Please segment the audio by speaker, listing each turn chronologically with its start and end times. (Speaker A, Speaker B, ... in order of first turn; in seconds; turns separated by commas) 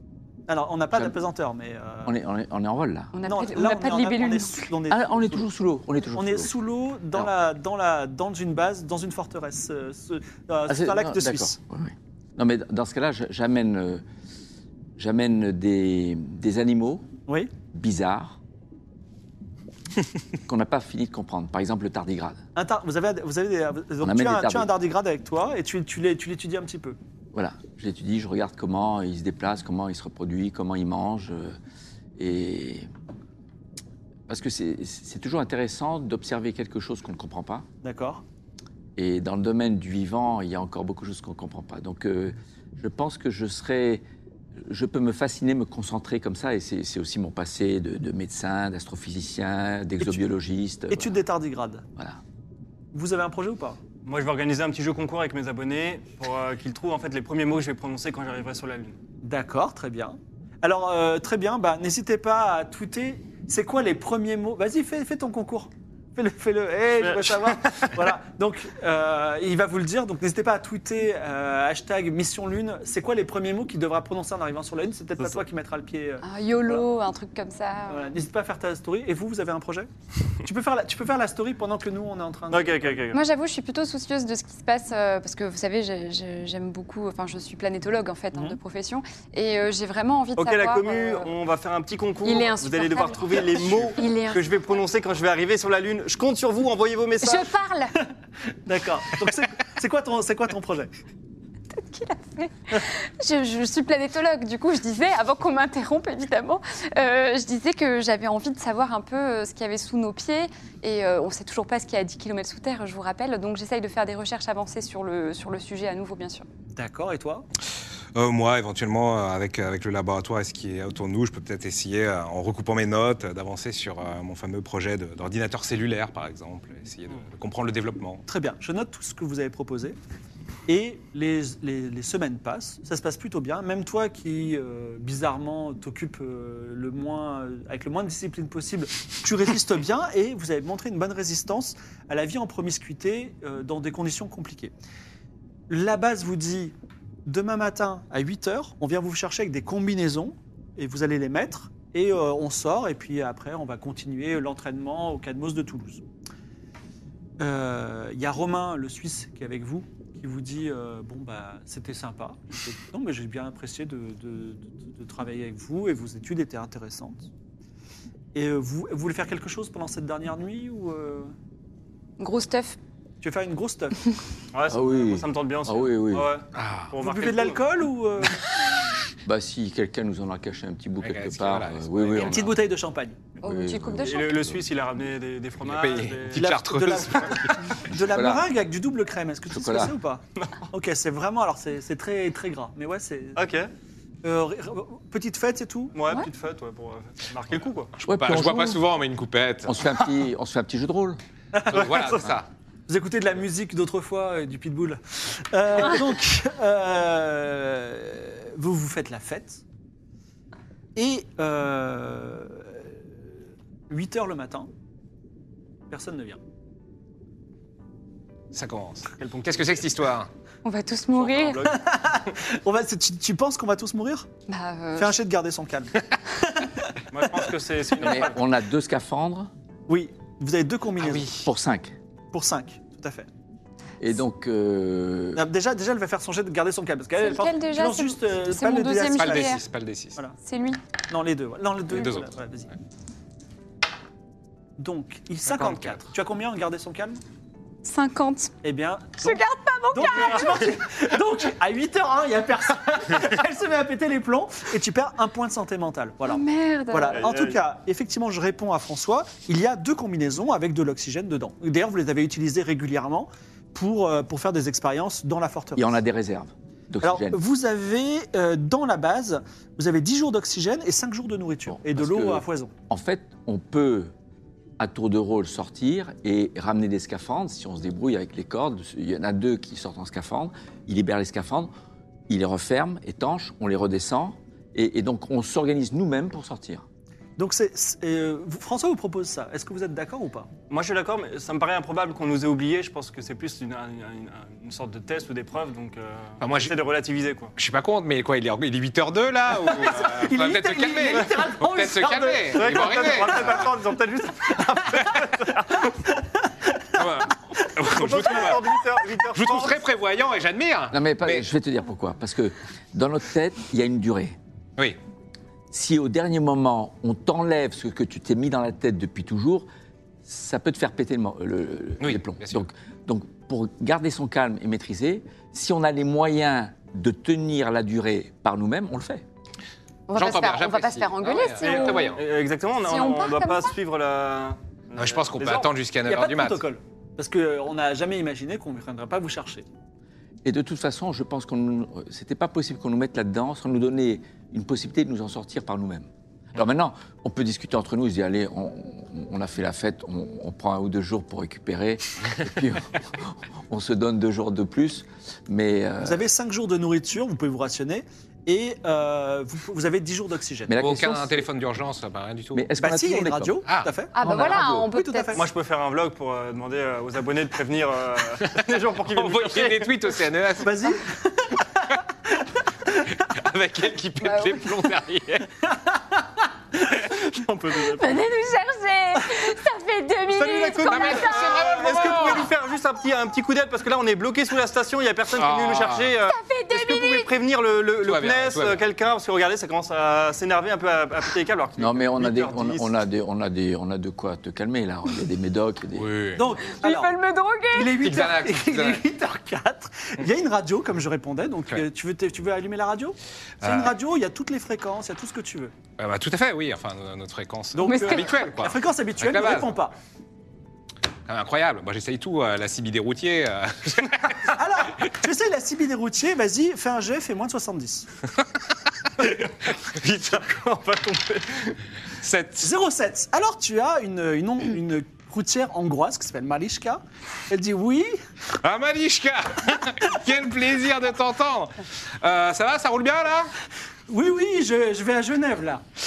Speaker A: 0.5-2.1, Speaker B: 2.0-3.1, Speaker C: 3.1-4.7, Speaker A: 3.2-5.5, Speaker B: 4.9-6.5, Speaker A: 6.1-11.6, Speaker B: 10.7-14.0, Speaker B: 15.0-17.1, Speaker B: 17.7-18.4, Speaker B: 20.4-22.4, Speaker A: 22.5-27.0, Speaker B: 24.0-24.7, Speaker B: 27.3-31.6, Speaker B: 32.2-32.9, Speaker B: 34.3-37.7, Speaker A: 37.8-38.2, Speaker B: 39.0-44.0, Speaker B: 44.6-51.2, Speaker A: 50.9-51.9, Speaker B: 52.0-52.2, Speaker A: 52.9-53.8, Speaker D: 54.0-59.0, Speaker A: 59.2-76.9, Speaker D: 67.0-68.0, Speaker D: 75.2-75.4, Speaker C: 76.2-78.1, Speaker A: 77.9-79.9, Speaker A: 80.4-83.0, Speaker D: 82.5-83.2, Speaker C: 83.1-91.3, Speaker D: 90.4-97.5, Speaker C: 92.2-94.8, Speaker C: 97.2-97.9, Speaker A: 98.6-100.9, Speaker C: 101.7-116.5, Speaker A: 116.7-117.5, Speaker E: 118.1-128.2, Speaker A: 128.3-129.9, Speaker A: 130.7-144.7, Speaker A: 145.7-146.7, Speaker A: 147.2-156.0, Speaker A: 157.4-167.3, Speaker A: 168.3-171.3, Speaker C: 172.2-172.8, Speaker A: 173.2-174.0, Speaker D: 174.5-177.6, Speaker B: 174.7-176.3, Speaker E: 176.5-176.9, Speaker A: 177.0-178.6, Speaker B: 179.2-182.6, Speaker E: 181.0-182.5, Speaker A: 182.2-183.2, Speaker C: 183.4-184.4, Speaker B: 183.4-184.7, Speaker D: 184.0-186.5, Speaker E: 185.6-187.7, Speaker A: 186.3-193.4, Speaker B: 187.9-188.5, Speaker B: 189.5-190.0, Speaker D: 193.3-193.7, Speaker A: 194.2-195.9, Speaker D: 195.9-197.9, Speaker E: 198.0-199.8, Speaker B: 198.1-198.8, Speaker B: 199.7-201.2, Speaker A: 201.5-201.9, Speaker E: 201.7-202.5, Speaker D: 201.7-202.3, Speaker A: 202.9-209.6, Speaker A: 210.9-213.0, Speaker A: 213.9-214.7, Speaker A: 215.9-216.4, Speaker E: 218.5-220.3, Speaker D: 219.1-219.8, Speaker C: 220.6-221.7, Speaker D: 221.2-221.7, Speaker A: 221.6-224.3, Speaker C: 224.5-225.1, Speaker A: 225.0-227.4, Speaker D: 227.1-228.4, Speaker B: 228.0-229.5, Speaker A: 229.9-231.4, Speaker E: 231.0-231.5, Speaker B: 231.2-231.9, Speaker A: 232.3-233.3, Speaker B: 234.0-235.5, Speaker A: 235.3-239.6, Speaker C: 237.2-239.6, Speaker E: 239.1-240.2, Speaker C: 240.4-240.8, Speaker A: 241.1-242.7, Speaker E: 241.9-242.3, Speaker A: 244.8-247.2, Speaker C: 247.8-248.5, Speaker A: 248.6-266.0, Speaker C: 249.2-250.7, Speaker C: 256.3-257.2, Speaker D: 257.1-257.6, Speaker B: 265.8-267.4, Speaker A: 267.0-272.7, Speaker B: 271.7-274.1, Speaker B: 274.8-281.7, Speaker B: 282.3-286.9, Speaker A: 287.4-290.5, Speaker D: 290.7-297.5, Speaker E: 296.4-296.7, Speaker E: 297.6-303.7, Speaker A: 299.5-303.6, Speaker D: 301.1-301.4, Speaker D: 302.5-305.9, Speaker E: 306.9-308.6, Speaker D: 307.9-309.8, Speaker A: 308.0-308.6, Speaker E: 309.3-311.5, Speaker B: 310.9-314.4, Speaker B: 315.7-319.7, Speaker B: 320.2-329.2, Speaker E: 322.0-322.6, Speaker C: 330.1-332.2, Speaker E: 330.1-332.2, Speaker D: 331.6-335.7, Speaker C: 332.8-333.8, Speaker E: 334.9-336.6, Speaker A: 336.1-339.6, Speaker B: 340.4-356.2, Speaker A: 356.0-360.8, Speaker B: 360.7-361.4, Speaker E: 360.8-362.7, Speaker B: 362.5-363.6, Speaker A: 362.8-365.5, Speaker C: 364.1-365.4, Speaker B: 364.2-364.9, Speaker D: 365.3-369.9, Speaker E: 368.4-370.9, Speaker A: 370.6-372.4, Speaker E: 373.2-375.5, Speaker C: 374.2-374.7, Speaker A: 375.9-376.2, Speaker D: 377.0-378.2, Speaker C: 377.9-381.8, Speaker D: 380.3-392.9, Speaker E: 380.9-382.5, Speaker E: 385.3-386.1, Speaker C: 386.3-387.3, Speaker E: 388.0-388.8, Speaker B: 391.8-396.2, Speaker E: 395.9-396.4, Speaker A: 396.3-397.1, Speaker C: 396.7-398.0, Speaker A: 397.7-405.7, Speaker E: 397.9-399.0, Speaker E: 403.6-403.9, Speaker E: 406.0-409.7, Speaker A: 407.7-409.9, Speaker C: 407.8-408.4, Speaker E: 411.3-414.6, Speaker A: 414.4-418.1, Speaker E: 419.2-420.2, Speaker D: 420.0-421.8, Speaker E: 422.2-422.7, Speaker A: 422.6-428.2, Speaker E: 428.6-433.5, Speaker A: 434.1-435.8